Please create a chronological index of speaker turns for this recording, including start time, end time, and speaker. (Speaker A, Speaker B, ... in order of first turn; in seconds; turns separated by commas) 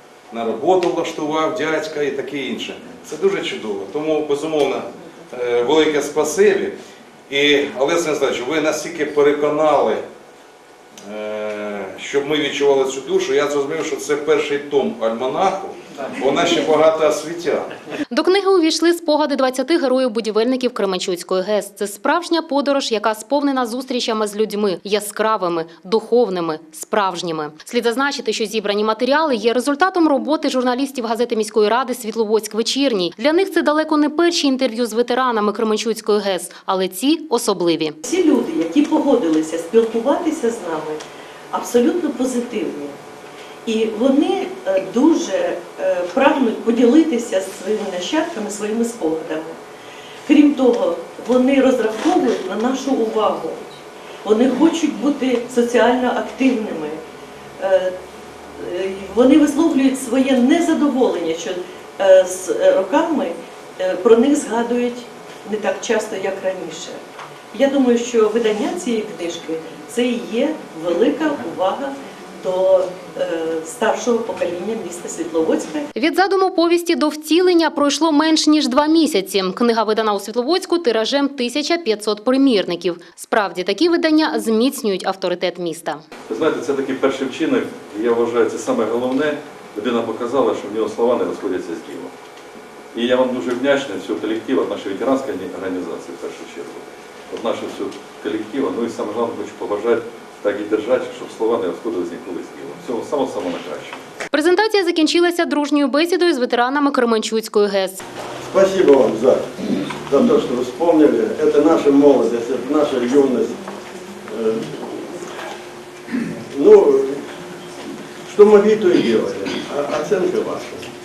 Speaker A: 0.3-6.8, Speaker A: 7.3-10.0, Speaker A: 11.1-17.7, Speaker B: 18.1-38.0, Speaker C: 38.0-41.0, Speaker C: 41.5-43.0, Speaker C: 43.6-49.6, Speaker C: 50.3-53.6, Speaker C: 54.2-57.0, Speaker C: 57.6-57.9, Speaker C: 58.6-67.0, Speaker C: 67.5-75.9, Speaker B: 76.0-86.0, Speaker D: 86.3-92.1, Speaker D: 92.9-104.0, Speaker B: 104.3-108.0, Speaker E: 108.4-109.5, Speaker E: 110.0-113.6, Speaker E: 114.3-115.2, Speaker E: 116.5-117.2, Speaker E: 118.3-120.8